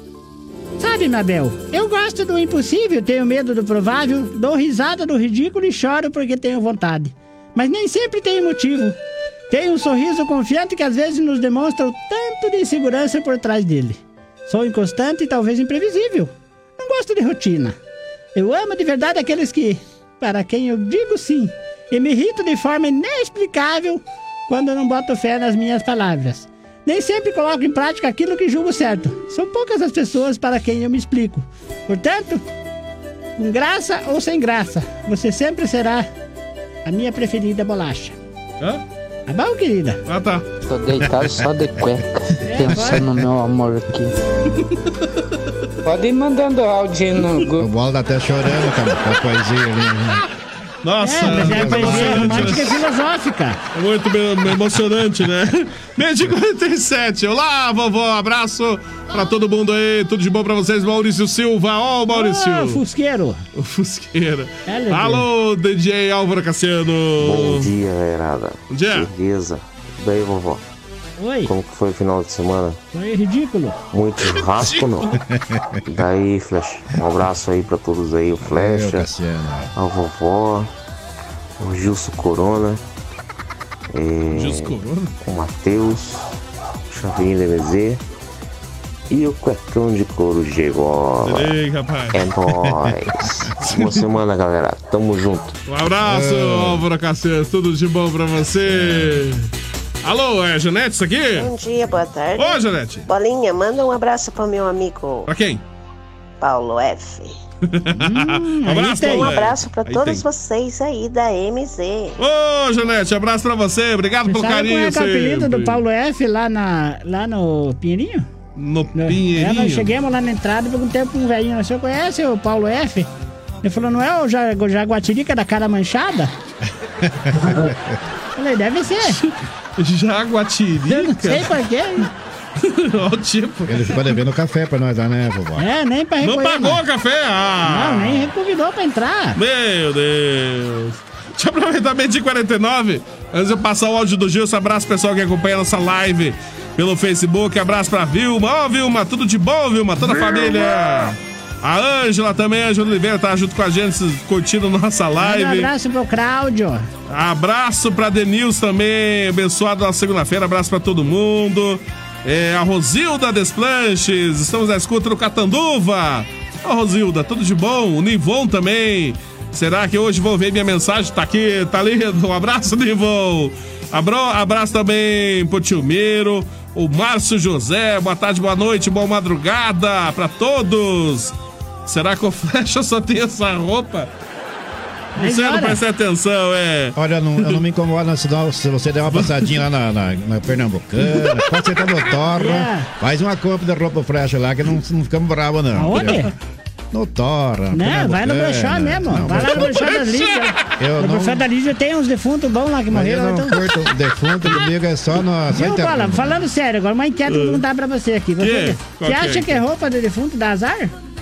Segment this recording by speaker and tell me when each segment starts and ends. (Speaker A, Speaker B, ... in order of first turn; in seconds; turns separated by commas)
Speaker A: 0.8-9.0, Speaker A: 9.5-17.8, Speaker A: 18.4-32.4, Speaker A: 33.4-36.1, Speaker A: 36.9-38.2, Speaker A: 39.3-40.0, Speaker B: 40.1-40.5, Speaker C: 40.7-44.1, Speaker A: 42.5-43.1, Speaker C: 45.9-47.6, Speaker D: 47.6-50.2, Speaker B: 50.8-52.8, Speaker A: 51.0-53.6, Speaker D: 51.2-52.7, Speaker B: 53.7-62.8, Speaker A: 62.1-63.4, Speaker B: 63.5-67.7, Speaker A: 64.7-65.2, Speaker E: 67.2-70.6, Speaker B: 68.7-69.1, Speaker A: 71.2-71.5, Speaker E: 71.5-72.8, Speaker A: 72.9-73.8, Speaker E: 73.9-75.2, Speaker B: 74.6-74.8, Speaker D: 75.3-75.6, Speaker E: 75.9-79.1, Speaker D: 78.4-79.7, Speaker E: 79.8-80.7, Speaker E: 81.6-82.8, Speaker E: 83.9-84.7, Speaker B: 84.3-85.1, Speaker E: 85.2-86.3, Speaker E: 86.9-88.0, Speaker E: 89.1-91.5, Speaker B: 91.2-92.2, Speaker E: 92.1-95.5, Speaker B: 93.7-94.0, Speaker B: 95.7-99.5, Speaker D: 96.0-96.8, Speaker D: 98.7-99.1, Speaker B: 100.0-101.5, Speaker F: 101.4-105.3, Speaker B: 102.3-103.1, Speaker B: 105.3-105.6, Speaker F: 106.4-107.3, Speaker B: 107.7-110.2, Speaker A: 108.0-109.3, Speaker F: 109.0-112.2, Speaker B: 112.2-115.8, Speaker A: 114.3-118.3, Speaker B: 118.6-119.9, Speaker A: 119.0-123.1, Speaker A: 123.6-126.3, Speaker D: 127.3-127.8, Speaker A: 128.4-129.2, Speaker B: 129.0-131.5, Speaker A: 130.9-132.1, Speaker B: 132.6-134.0, Speaker D: 133.7-135.7, Speaker A: 135.6-136.8, Speaker B: 136.2-138.3, Speaker A: 137.6-139.4, Speaker B: 139.4-155.7, Speaker A: 155.2-156.9, Speaker B: 157.1-181.3, Speaker B: 181.9-184.1, Speaker A: 185.2-185.8, Speaker B: 185.2-187.6, Speaker D: 187.0-196.2, Speaker B: 189.1-189.5, Speaker A: 192.3-192.9, Speaker A: 195.8-196.3, Speaker D: 196.9-199.9, Speaker A: 197.7-203.6, Speaker B: 199.6-200.4, Speaker D: 200.8-201.4, Speaker D: 202.9-206.4, Speaker A: 205.5-210.9, Speaker B: 207.3-207.6, Speaker B: 208.4-209.6